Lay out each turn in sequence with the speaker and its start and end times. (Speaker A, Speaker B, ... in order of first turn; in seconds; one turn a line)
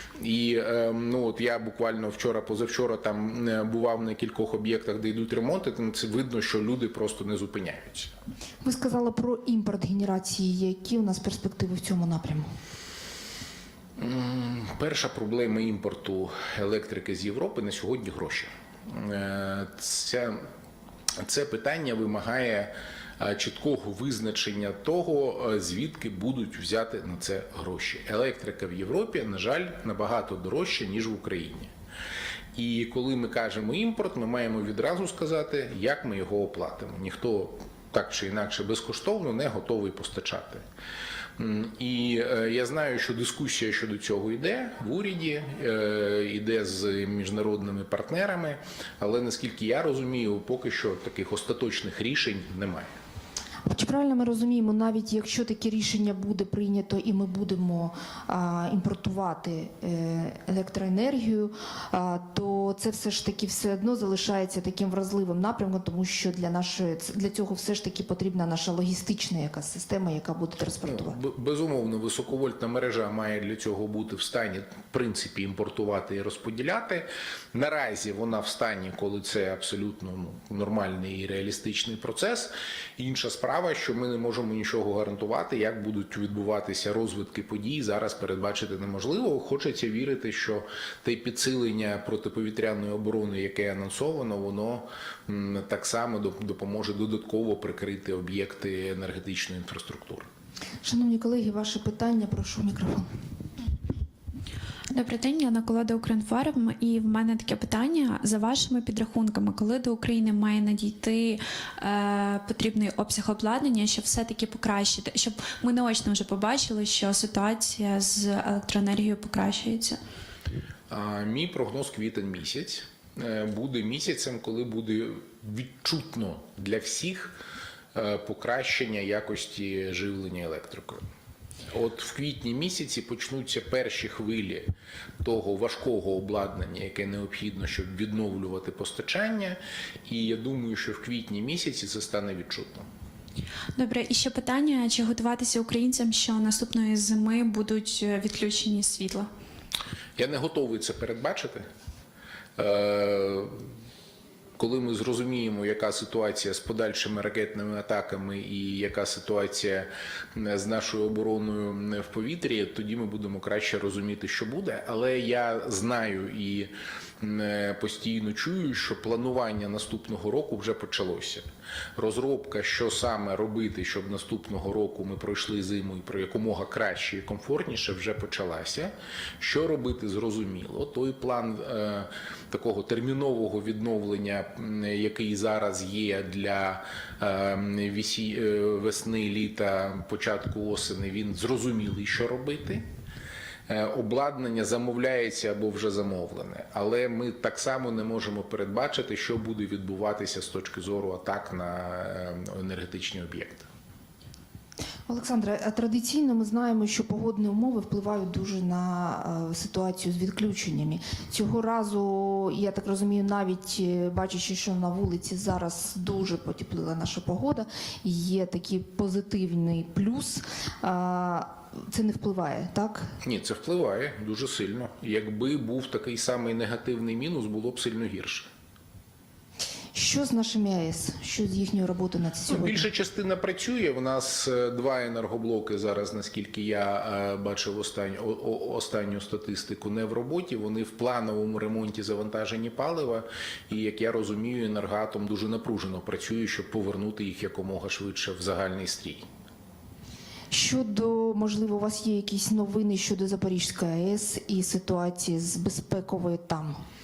Speaker A: 0.2-8.1
Speaker B: 8.6-12.5
Speaker A: 14.0-20.4
Speaker A: 21.2-31.7
Speaker A: 32.5-40.6
Speaker A: 41.4-52.9
Speaker B: 53.7-71.2
Speaker A: 70.8-100.3
Speaker B: 100.8-103.1
Speaker C: 104.9-120.0
Speaker A: 120.9-127.4
Speaker A: 127.9-131.0
Speaker A: 131.7-134.7
Speaker A: 135.2-142.9
Speaker C: 143.8-149.3
Speaker A: 150.2-151.7
Speaker A: 152.6-153.6
Speaker A: 154.6-171.4
Speaker A: 172.0-192.8
Speaker A: 193.7-203.7
Speaker B: 205.1-223.1
Speaker A: 223.2-228.5
Speaker B: 229.9-232.9
Speaker A: 232.5-249.2
Speaker B: 250.5-256.8